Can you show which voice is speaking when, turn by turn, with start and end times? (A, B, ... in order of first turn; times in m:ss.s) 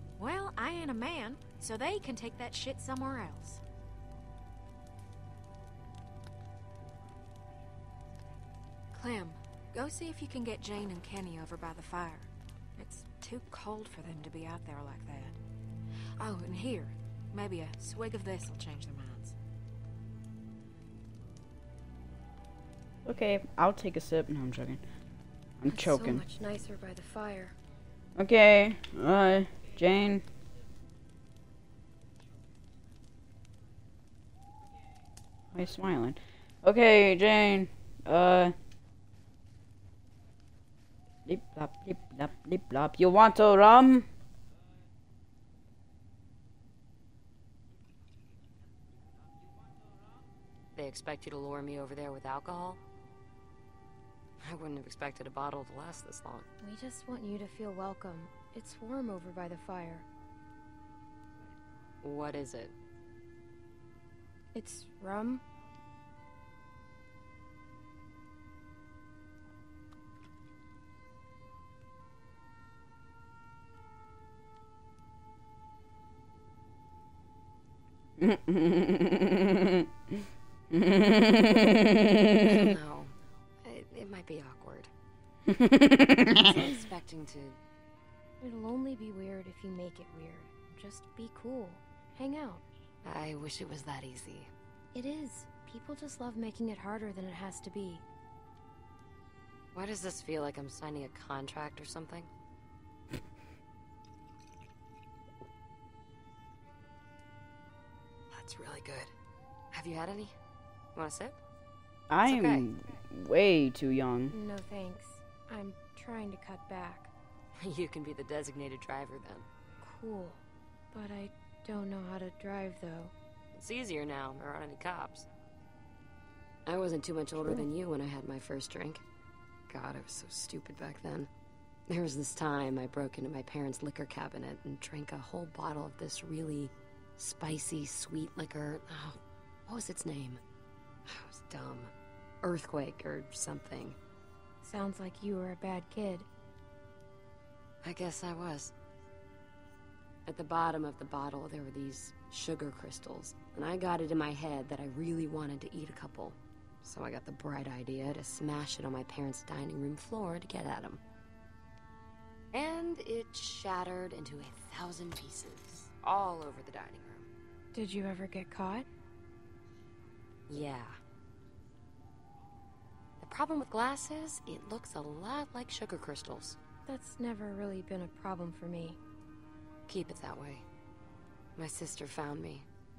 0:00.2-0:03.6 A
0:08.9-0:15.4 A
0:16.2-0:19.4 A
0:23.1-0:24.8 B
0:25.6-0:26.2 B
0:25.7-0:27.6 C
0:28.2-0:30.2 B
0:35.5-0:38.6 B
0:41.3-0:44.1 B
0:50.8-0:52.8 D
0:54.4-0:56.5 D
0:56.6-1:00.1 C
1:02.0-1:02.7 D
1:04.5-1:05.4 C
1:18.2-1:19.9 B
1:20.7-1:22.8 B
1:22.4-1:24.9 D
1:25.5-1:26.5 B
1:26.4-1:27.6 D
1:28.4-1:32.6 C
1:33.0-1:34.5 D
1:34.9-1:38.0 C
1:39.7-1:42.3 D
1:48.3-1:49.1 D
1:49.7-1:50.4 D
1:50.9-1:51.4 D
1:52.1-1:54.3 B
1:52.2-1:52.7 D
1:54.3-1:57.1 C
1:57.6-1:59.5 D
1:59.8-2:03.1 C
2:03.6-2:05.3 D
2:06.6-2:09.0 D
2:09.7-2:11.3 D
2:11.9-2:20.4 D
2:21.0-2:24.0 D
2:24.6-2:26.3 C
2:27.8-2:28.7 D
2:30.3-2:41.0 D
2:42.5-2:47.3 D
2:47.7-2:48.9 C
2:50.5-2:51.0 D
2:53.2-2:56.6 D
2:56.9-2:59.0 C
2:59.9-3:00.6 D
3:01.6-3:02.7 D